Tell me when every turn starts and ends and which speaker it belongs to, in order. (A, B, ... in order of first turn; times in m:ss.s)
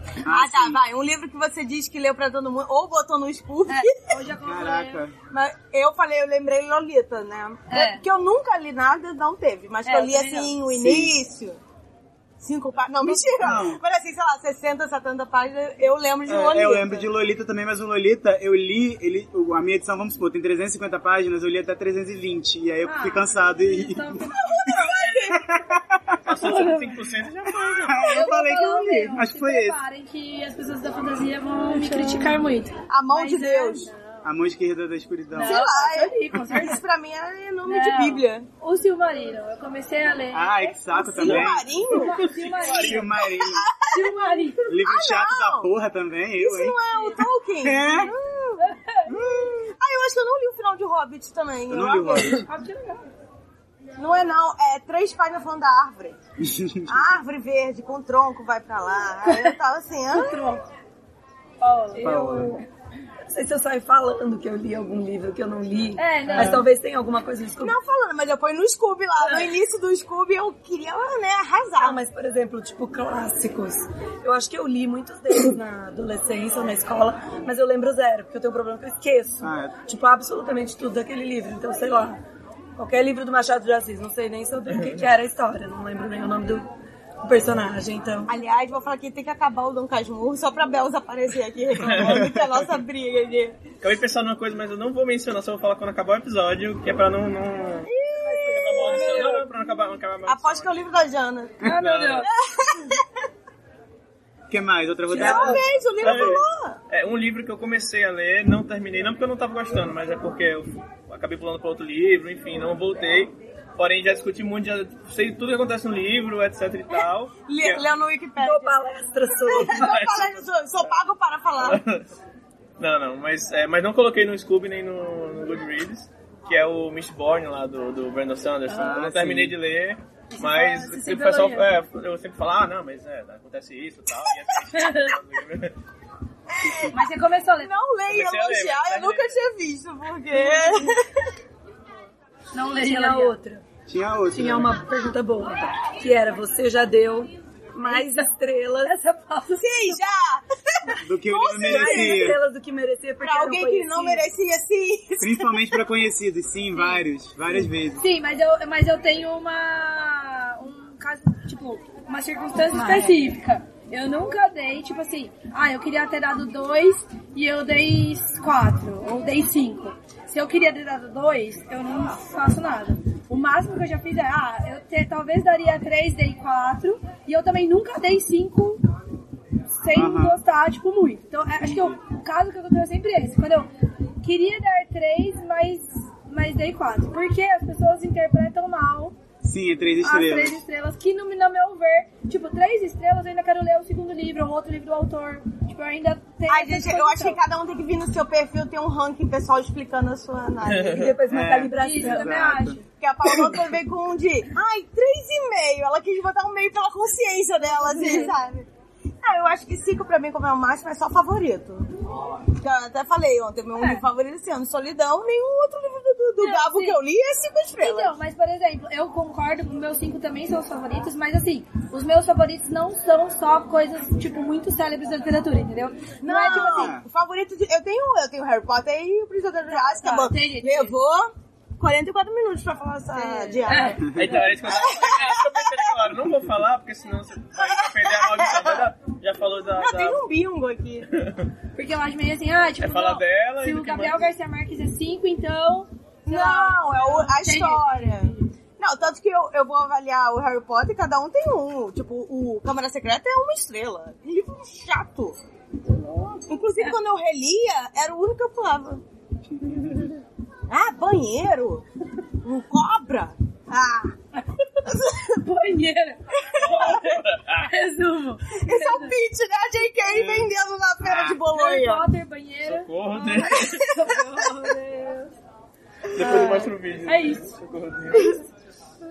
0:00.2-0:00.8 A
0:00.3-0:04.2 B
0:03.7-0:05.0 C
0:04.4-0:05.1 A
0:05.3-0:11.6 B
0:07.7-0:08.0 C
0:09.8-0:10.6 C
0:10.7-0:11.2 A
0:12.4-0:17.1 B
0:13.3-0:13.8 A
0:16.3-0:24.8 A
0:22.8-0:25.0 C
0:24.4-0:25.6 B
0:25.0-0:25.3 D
0:25.4-0:26.3 A
0:26.2-0:28.2 D
0:26.3-0:27.0 C
0:27.5-0:29.8 A
0:28.0-0:34.2 C
0:32.9-0:33.9 B
0:34.2-0:35.7 A
0:35.3-0:36.8 C
0:35.4-0:38.5 B
0:37.7-0:43.1 C
0:40.3-0:41.8 A
0:41.0-0:42.3 B
0:42.1-0:43.2 D
0:42.6-0:43.7 A
0:43.3-0:44.2 B
0:43.9-0:44.8 C
0:44.7-0:46.8 A
0:44.7-0:45.7 B
0:46.4-0:52.4 B
0:46.9-0:47.2 C
0:47.6-0:48.1 A
0:48.6-0:49.1 C
0:49.1-0:49.5 A
0:51.7-0:52.4 A
0:52.4-0:53.1 C
0:54.0-0:56.2 B
0:56.4-0:57.0 A
0:56.8-1:00.4 B
0:59.3-0:59.5 C
1:00.1-1:00.7 C
1:01.6-1:02.1 C
1:01.9-1:02.7 E
1:02.0-1:02.6 A
1:03.3-1:07.8 E
1:06.0-1:06.6 C
1:06.4-1:06.6 A
1:07.6-1:12.0 B
1:11.8-1:22.2 E
1:19.4-1:19.8 A
1:22.8-1:26.6 E
1:24.7-1:25.0 D
1:27.2-1:28.3 E
1:28.3-1:33.6 B
1:31.8-1:32.3 D
1:32.0-1:32.6 A
1:33.8-1:37.9 D
1:37.9-1:39.5 B
1:38.2-1:38.5 C
1:38.5-1:40.8 D
1:40.3-1:41.6 B
1:41.6-1:42.3 C
1:41.6-1:42.3 D
1:42.2-1:43.0 B
1:44.5-1:46.4 A
1:45.1-1:45.6 E
1:45.1-1:46.8 B
1:46.0-1:57.9 D
1:57.5-1:58.8 B
1:58.4-2:00.0 E
1:59.4-2:01.8 B
1:59.5-2:01.0 D
2:01.6-2:02.1 D
2:02.8-2:15.7 D
2:08.7-2:09.6 A
2:10.3-2:11.7 C
2:14.7-2:15.1 C
2:16.6-2:17.0 B
2:16.9-2:17.7 C
2:17.6-2:21.1 B
2:18.1-2:19.4 D
2:20.4-2:20.8 C
2:22.5-2:23.4 C
2:22.8-2:23.6 E
2:23.9-2:24.8 A
2:24.3-2:29.0 E
2:27.9-2:28.1 B
2:27.9-2:28.2 C
2:28.8-2:30.1 C
2:29.6-2:32.4 B
2:31.0-2:32.4 A
2:31.5-2:34.3 E
2:33.2-2:35.8 B
2:35.2-2:38.0 A
2:36.8-2:37.0 C
2:38.0-2:58.8 C
2:42.7-2:43.2 E
2:59.7-3:03.7 C
2:59.9-3:00.4 A
3:04.2-3:09.1 C
3:09.4-3:10.6 A
3:10.0-3:17.4 C
3:16.5-3:21.2 B
3:20.6-3:21.1 D
3:20.9-3:22.3 E
3:21.3-3:22.8 A
3:21.8-3:22.9 C
3:23.0-3:28.7 B
3:28.1-3:28.3 C
3:29.2-3:31.9 B
3:32.6-3:38.2 B
3:33.8-3:34.0 C
3:36.4-3:37.0 C
3:37.8-3:47.0 C
3:46.2-3:55.8 B
3:46.5-3:47.0 A
3:49.7-3:51.0 C
3:53.1-3:54.2 C
3:54.1-4:00.2 D
3:57.6-3:58.8 B
3:59.8-4:01.1 B
4:01.1-4:01.5 D
4:01.8-4:08.5 C
4:02.8-4:04.3 D
4:06.3-4:15.4 B
4:16.3-4:19.0 B
4:19.5-4:20.1 A
4:20.7-4:21.8 B
4:22.4-4:24.1 B
4:24.8-4:25.4 B
4:25.3-4:29.2 C
4:26.4-4:27.1 B
4:26.6-4:27.7 D
4:28.5-4:32.1 B
4:30.1-4:30.5 D
4:31.0-4:31.4 A
4:31.5-4:35.3 C
4:32.6-4:33.9 D
4:33.4-4:34.5 B
4:36.1-4:38.4 D
4:36.1-4:37.6 C